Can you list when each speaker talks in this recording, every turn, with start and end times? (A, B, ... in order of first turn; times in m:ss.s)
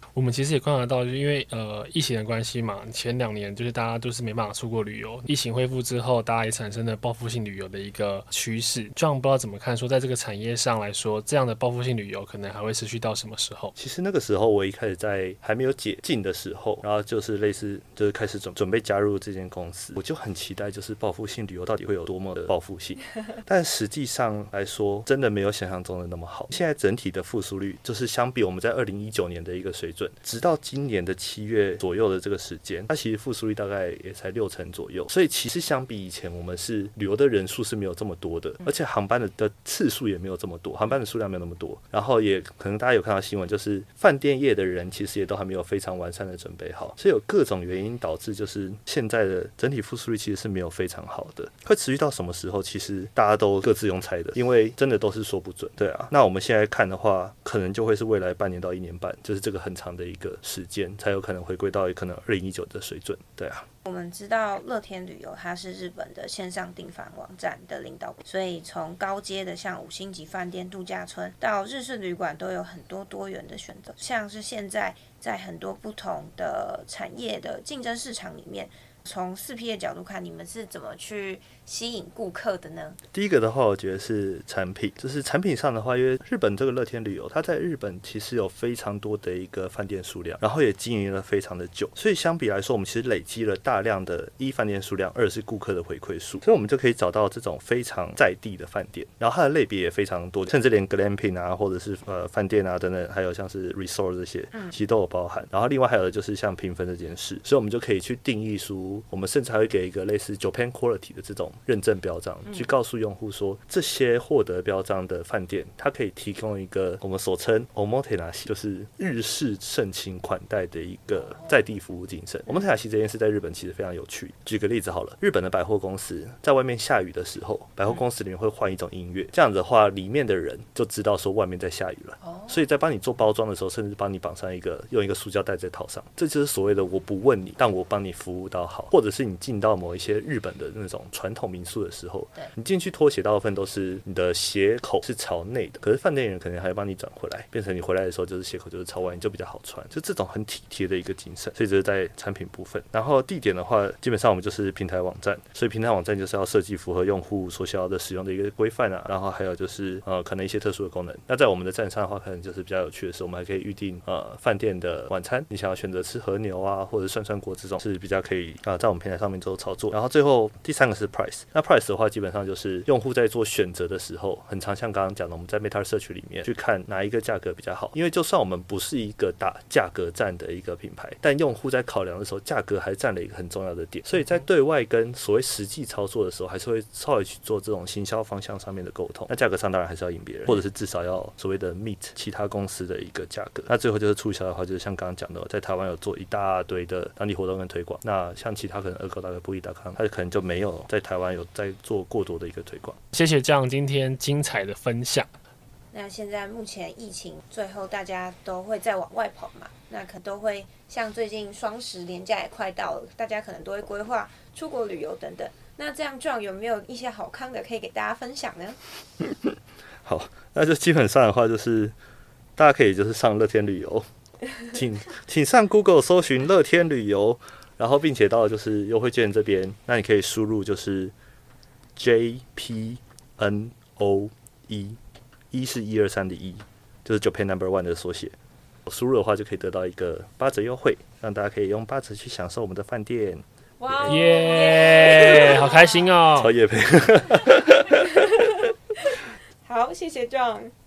0:00.1-0:13.7 A
0:13.8-1:03.7 B
1:03.8-1:23.0 C
1:23.1-3:23.0 B
2:12.2-2:12.6 C
3:23.1-3:25.3 A
3:25.9-3:38.8 C
3:39.2-3:41.9 B
3:42.6-3:44.1 B
3:44.6-3:51.1 B
3:51.9-3:55.0 B
3:55.5-3:58.3 B
3:58.8-4:04.4 B
4:03.8-4:06.2 C
4:04.0-4:06.5 A
4:06.3-4:08.7 B
4:07.9-4:10.7 C